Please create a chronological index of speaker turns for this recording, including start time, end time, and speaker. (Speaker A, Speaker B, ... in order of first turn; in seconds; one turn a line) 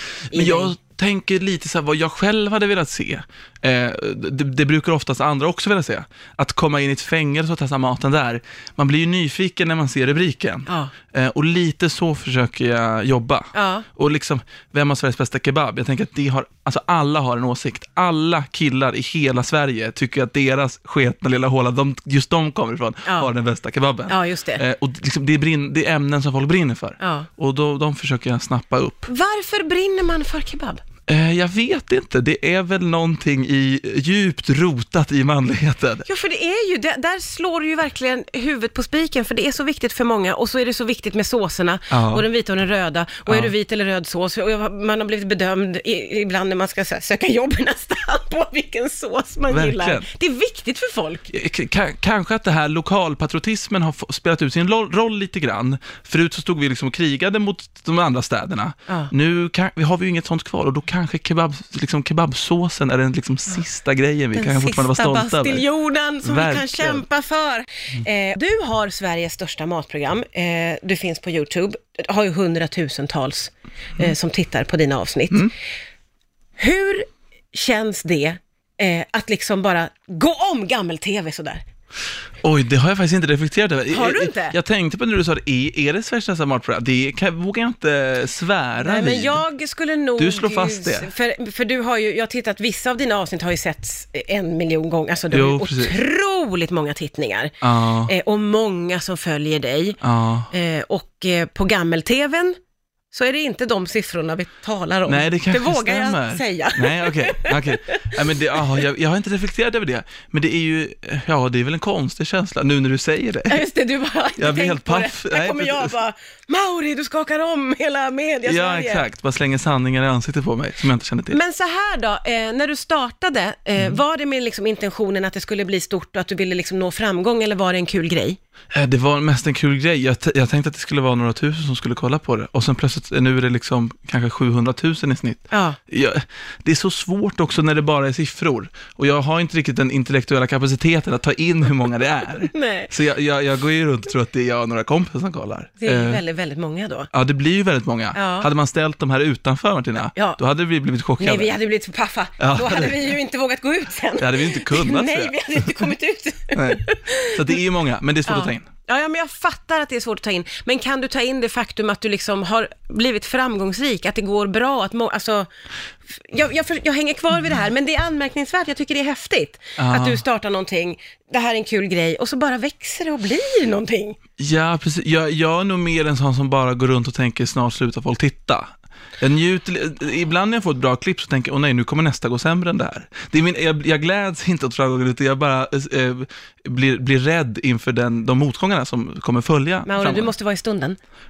Speaker A: 0.3-29.1
Speaker B: 0.3-0.7
Speaker B: 10.7-10.9
Speaker B: 13.5-13.8
Speaker B: 24.1-24.6
Speaker B: 27.0-27.3
Speaker B: 29.1-30.8
Speaker A: 31.1-36.0
Speaker B: 36.0-51.2
Speaker A: 41.9-42.2
Speaker A: 43.3-43.5
Speaker A: 49.5-50.1
Speaker A: 51.3-65.6
Speaker B: 64.3-75.5
Speaker A: 66.2-67.0
Speaker B: 76.6-81.6
Speaker A: 82.4-89.4
Speaker B: 83.9-84.5
Speaker B: 88.8-100.0
Speaker A: 90.2-91.1
Speaker A: 95.3-96.0
Speaker A: 97.6-98.1
Speaker A: 100.0-100.5
Speaker B: 100.5-102.5
Speaker B: 103.1-108.6
Speaker A: 105.1-113.6
Speaker B: 113.5-119.0
Speaker A: 114.4-115.9
Speaker A: 118.4-121.4
Speaker B: 121.3-128.4
Speaker A: 128.7-146.2
Speaker B: 135.5-135.8
Speaker B: 142.5-142.9
Speaker B: 145.8-147.1
Speaker A: 147.1-151.5
Speaker B: 148.1-148.5
Speaker B: 150.1-150.4
Speaker B: 151.2-157.6
Speaker A: 152.4-153.1
Speaker A: 154.2-155.9
Speaker A: 156.5-158.7
Speaker B: 158.3-165.5
Speaker B: 166.1-174.2
Speaker A: 169.8-170.2
Speaker A: 174.4-190.3
Speaker B: 189.8-191.0